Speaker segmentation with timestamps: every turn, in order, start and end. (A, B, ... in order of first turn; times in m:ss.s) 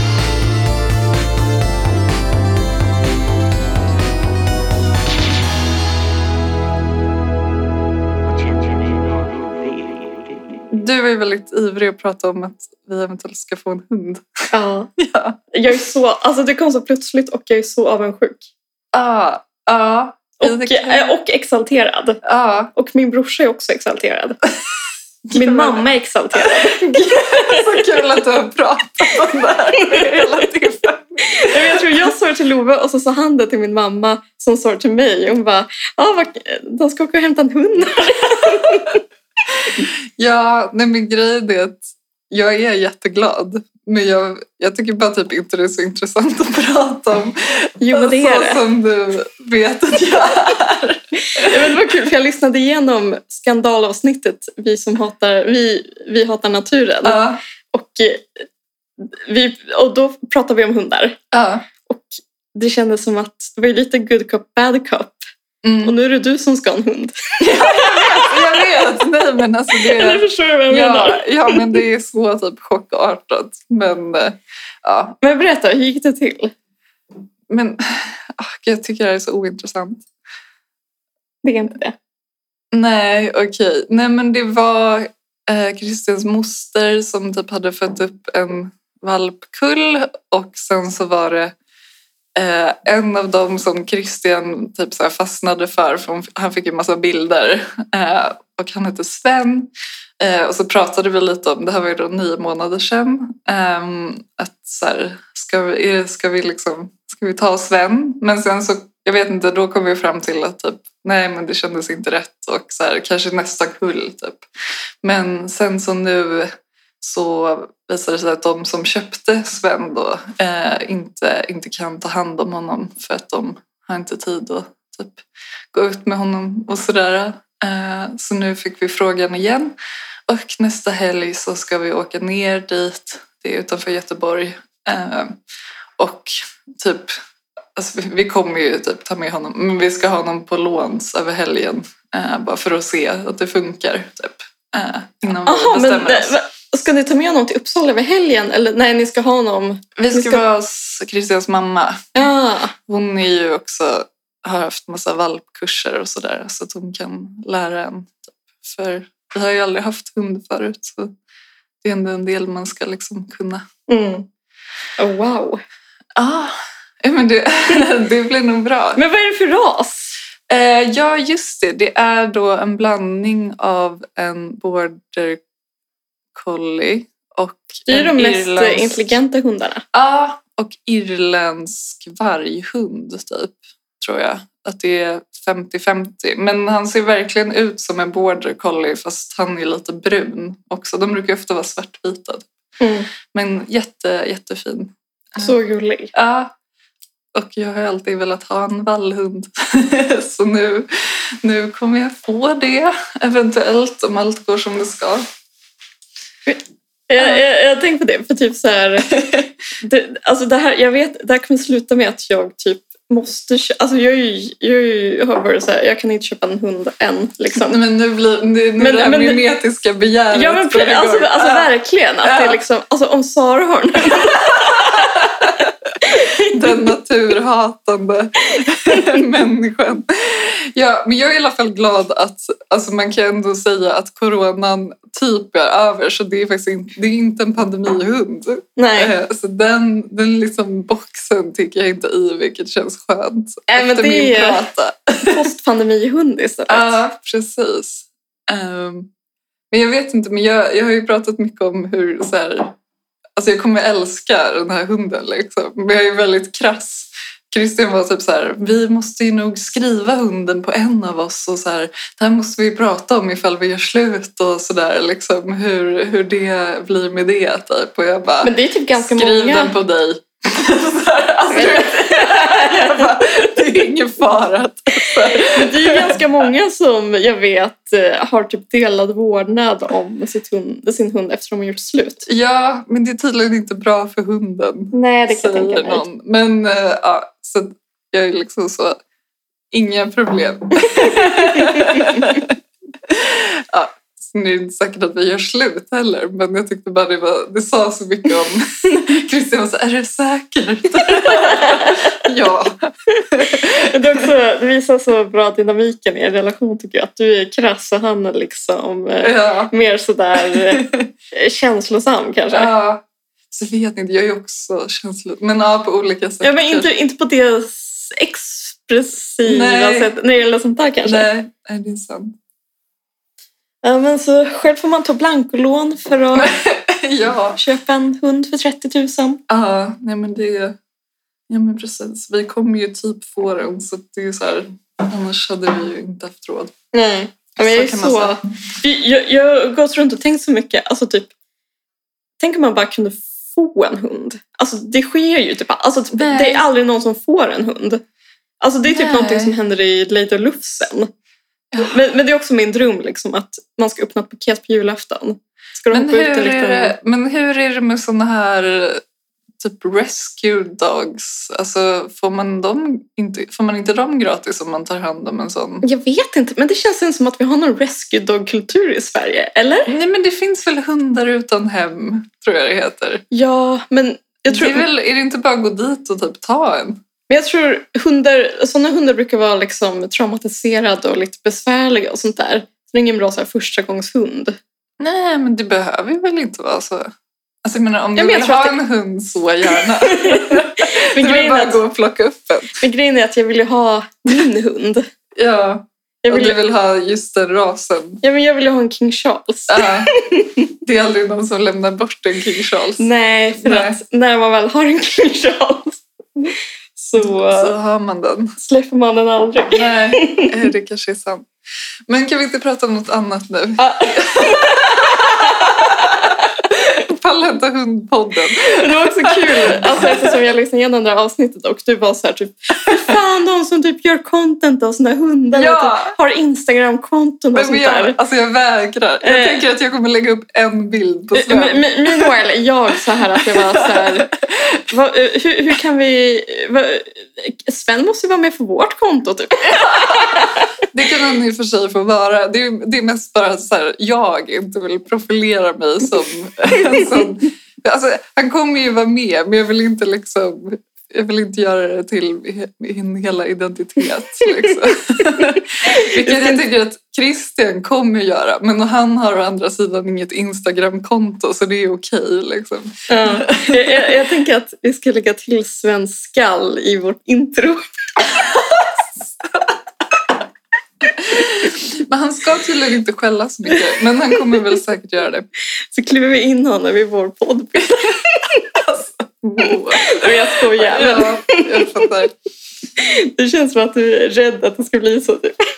0:08.2-0:10.6 A
0:10.7-0:14.3 B
0:14.5-0:14.9 C
0:15.0-0:15.4 B
0:15.5-0:18.5 C
0:18.9-0:21.1 B
0:20.4-0:22.2 C
0:22.2-0:22.7 B
0:22.7-0:24.4 C
0:25.3-0:25.8 B
0:25.3-0:27.8 C
0:26.4-0:32.0 B
0:29.8-0:30.2 C
0:31.3-0:39.0 C
0:39.7-0:51.8 B
0:47.8-0:48.6 C
0:51.3-0:58.5 C
0:57.0-0:57.4 B
0:59.0-1:01.2 C
1:01.3-1:01.7 B
1:01.8-1:05.2 C
1:05.6-1:05.9 B
1:05.8-1:09.0 C
1:07.4-1:15.2 B
1:09.7-1:11.8 C
1:15.2-1:16.5 C
1:17.5-1:20.0 B
1:21.4-1:22.0 C
1:22.7-1:31.6 B
1:32.4-1:54.4 B
1:55.0-2:09.8 B
2:10.3-2:15.4 B
2:16.0-2:17.1 B
2:17.8-2:26.3 B
2:25.4-2:30.4 C
2:30.0-2:32.2 B
2:32.1-2:32.7 C
2:32.9-2:41.1 B
2:41.8-2:43.6 B
2:43.9-2:44.3 C
2:45.0-2:45.6 C
2:46.2-2:49.0 B
2:49.0-2:50.1 C
2:50.5-2:55.4 B
2:56.4-2:59.1 B
2:57.9-2:59.8 C
2:59.9-3:12.5 B
3:12.8-3:13.1 C
3:13.3-3:15.5 B
3:15.4-3:16.1 C
3:16.1-3:16.5 B
3:17.4-3:25.2 B
3:26.5-3:37.8 C
3:37.6-3:41.7 B
3:38.8-3:39.4 C
3:40.3-3:46.9 C
3:42.2-3:42.6 B
3:44.1-4:05.4 B
3:58.8-3:59.1 C
4:03.7-4:04.7 C
4:05.2-4:07.0 C
4:06.7-4:09.1 B
4:09.7-4:12.8 B
4:13.4-4:36.3 B
4:28.4-4:29.7 C
4:31.5-4:33.5 C
4:35.4-4:42.2 C
4:42.2-4:49.0 B
4:44.9-4:46.0 C
4:49.7-5:03.9 B
4:51.0-4:52.0 C
5:01.1-5:02.2 C
5:03.1-5:12.7 C
5:09.2-5:09.7 B
5:10.4-5:10.9 B
5:12.5-5:16.9 B
5:16.4-5:21.3 C
5:19.4-5:20.1 B
5:21.0-5:22.4 B
5:23.8-5:26.6 C
5:26.4-5:27.6 B
5:27.6-5:29.4 C
5:29.5-5:30.8 B
5:31.5-5:36.7 B
5:36.9-5:41.3 C
5:37.6-5:38.4 B
5:42.4-5:48.0 C
5:46.1-5:46.6 B
5:48.6-5:51.1 C
5:48.9-5:49.6 B
5:51.8-5:56.9 C
5:55.9-5:59.0 B
5:59.6-6:05.8 B
6:05.8-6:09.9 C
6:09.9-6:13.2 B
6:13.3-6:14.8 C
6:14.5-6:17.0 B
6:17.3-6:24.6 C
6:25.0-6:27.1 B
6:27.6-6:32.8 B
6:28.2-6:28.8 C
6:29.7-6:31.8 C
6:32.8-6:35.1 C
6:35.4-6:38.2 B
6:36.2-6:36.6 C
6:38.2-6:40.6 C
6:39.7-6:40.1 B
6:40.8-6:43.1 B
6:43.0-6:47.8 C
6:43.6-6:44.0 B
6:47.2-6:48.6 B
6:48.6-6:50.5 C
6:49.8-6:51.5 B
6:52.1-7:00.4 B
6:53.8-6:56.5 C
6:58.7-7:08.2 C
7:05.5-7:06.1 B
7:07.5-7:12.3 B
7:09.2-7:09.6 C
7:11.4-7:14.4 C
7:13.4-7:14.8 B
7:14.9-7:20.7 C
7:19.7-7:44.1 B
7:35.4-7:36.6 C
7:43.1-7:47.8 C
7:48.3-7:49.0 B
7:51.0-7:55.5 B
7:55.9-7:58.7 C
7:58.6-8:02.4 B
7:59.9-8:02.1 C
8:03.0-8:05.6 C